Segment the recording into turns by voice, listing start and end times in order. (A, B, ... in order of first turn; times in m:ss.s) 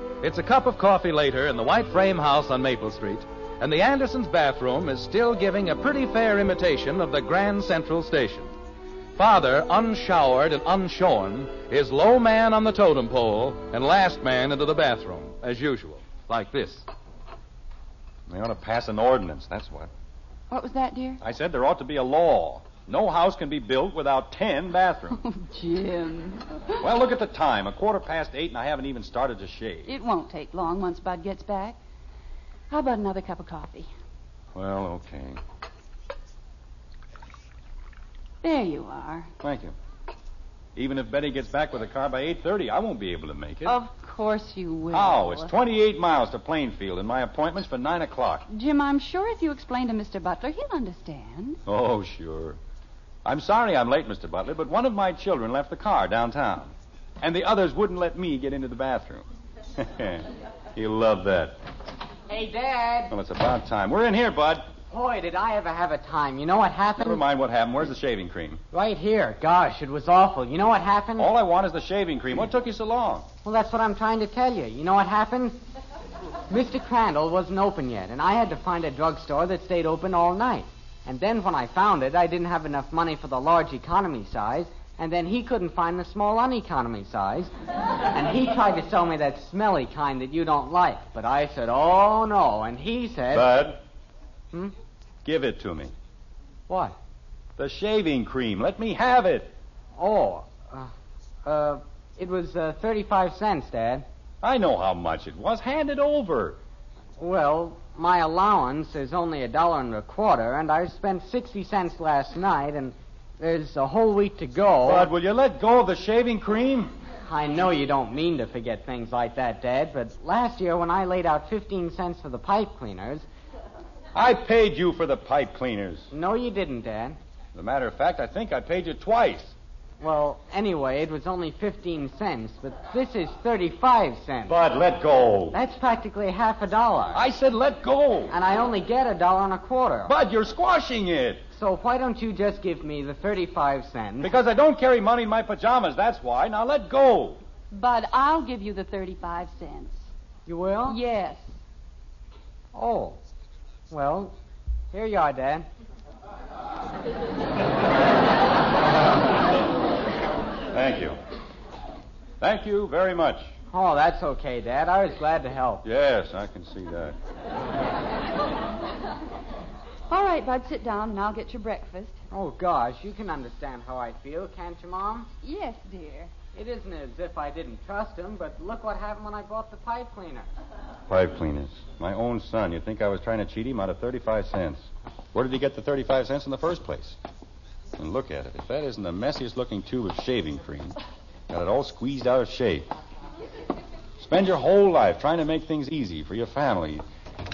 0:00.2-0:08.5 A
0:09.2-0:16.8 A
0:18.3-0:19.9 B
0:20.5-0:21.2 C
0:21.2-0:25.2 B
0:25.2-0:26.8 C
0:26.8-0:29.9 B
0:29.9-0:31.8 C
0:32.7-0:33.9 C
0:34.5-0:35.4 B
0:38.4-0:39.3 C
0:39.4-0:39.7 B
0:40.8-0:43.8 B
0:43.6-0:45.5 C
0:44.9-0:48.4 B
0:48.5-0:51.6 C
0:51.6-0:52.6 B
0:53.2-1:01.6 B
1:02.3-1:03.1 D
1:03.1-1:04.7 B
1:04.9-1:07.2 D
1:07.0-1:08.6 B
1:08.7-1:11.3 D
1:11.2-1:13.3 B
1:13.4-1:15.6 D
1:16.5-1:27.5 D
1:28.0-1:33.5 D
1:33.3-1:33.8 B
1:35.2-1:35.9 B
1:36.7-1:37.0 D
1:37.6-1:39.5 B
1:40.0-1:40.9 D
1:41.4-1:44.0 D
1:44.4-1:46.6 B
1:47.2-1:55.1 D
1:54.8-1:56.9 B
1:57.2-2:03.2 D
2:04.1-2:06.1 B
2:06.1-2:07.2 D
2:07.5-2:09.5 B
2:10.0-2:14.6 D
2:14.5-2:15.6 B
2:15.5-2:17.2 D
2:17.1-2:18.3 B
2:18.3-2:20.1 D
2:20.0-2:21.4 B
2:21.5-2:24.4 D
2:24.2-2:27.4 B
2:27.7-2:30.1 C
2:30.5-2:31.0 D
2:30.9-2:31.5 C
2:32.7-2:33.2 D
2:33.9-2:34.3 D
2:34.9-2:35.7 D
2:40.7-2:41.2 B
2:42.4-2:43.5 B
2:43.7-2:45.8 D
2:45.8-2:47.2 B
2:50.1-2:52.2 C
2:52.3-2:55.3 D
2:55.4-2:56.3 C
2:56.5-3:00.5 D
3:01.1-3:07.2 B
3:08.0-3:11.0 B
3:11.5-3:12.9 B
3:14.2-3:17.0 B